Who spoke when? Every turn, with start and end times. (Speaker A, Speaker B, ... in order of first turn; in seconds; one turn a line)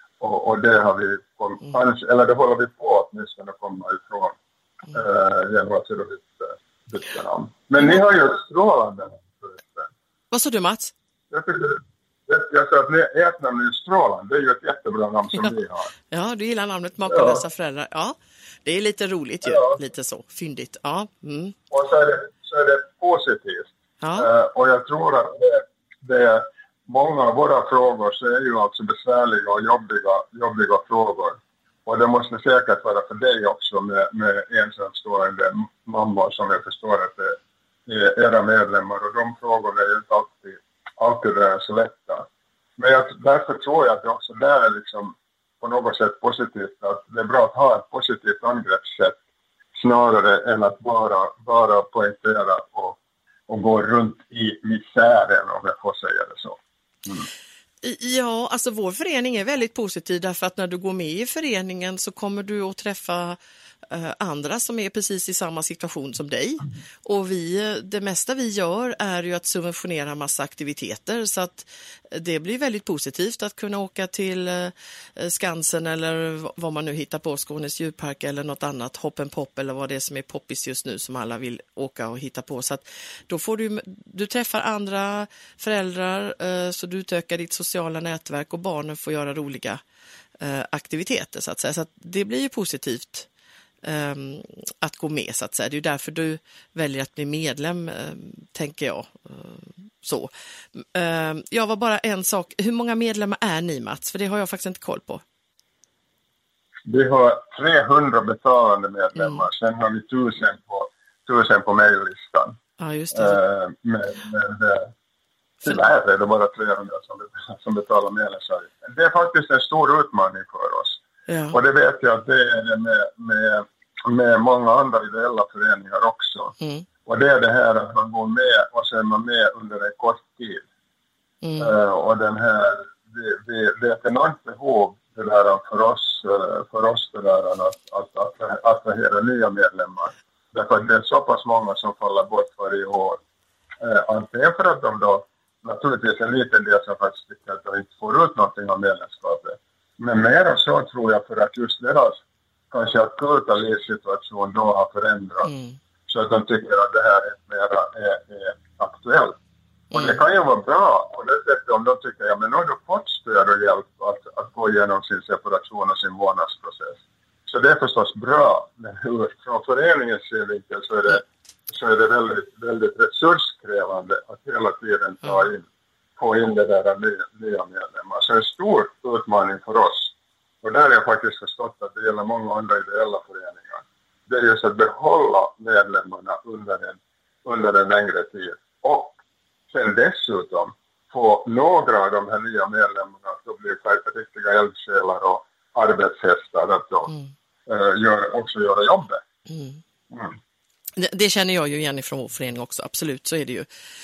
Speaker A: 0.2-4.3
Speaker A: 4.9-9.9
Speaker B: 10.3-10.9
Speaker A: 11.3-15.9
Speaker B: 16.1-21.6
Speaker A: 17.1-17.4
Speaker A: 19.4-19.8
Speaker A: 21.7-49.2
Speaker B: 24.0-24.3
Speaker A: 49.7-57.2
Speaker B: 57.8-63.4
Speaker B: 63.9-89.8
Speaker B: 90.4-93.3
Speaker B: 93.8-105.2
Speaker A: 106.8-112.6
Speaker B: 109.2-109.4
Speaker B: 112.8-113.4
Speaker A: 113.1-114.9
Speaker A: 115.6-121.0
Speaker B: 121.3-121.6
Speaker A: 121.5-126.5
Speaker B: 126.6-126.8
Speaker A: 127.0-130.6
Speaker B: 131.4-131.7
Speaker A: 131.6-143.2
Speaker A: 143.8-155.5
Speaker B: 155.4-155.8
Speaker A: 156.1-159.4
Speaker A: 159.9-175.6
Speaker B: 159.9-160.2
Speaker A: 176.2-189.2
Speaker A: 189.7-197.1
Speaker A: 197.7-199.2
Speaker B: 199.5-199.8
Speaker A: 200.1-200.3
Speaker B: 200.9-203.7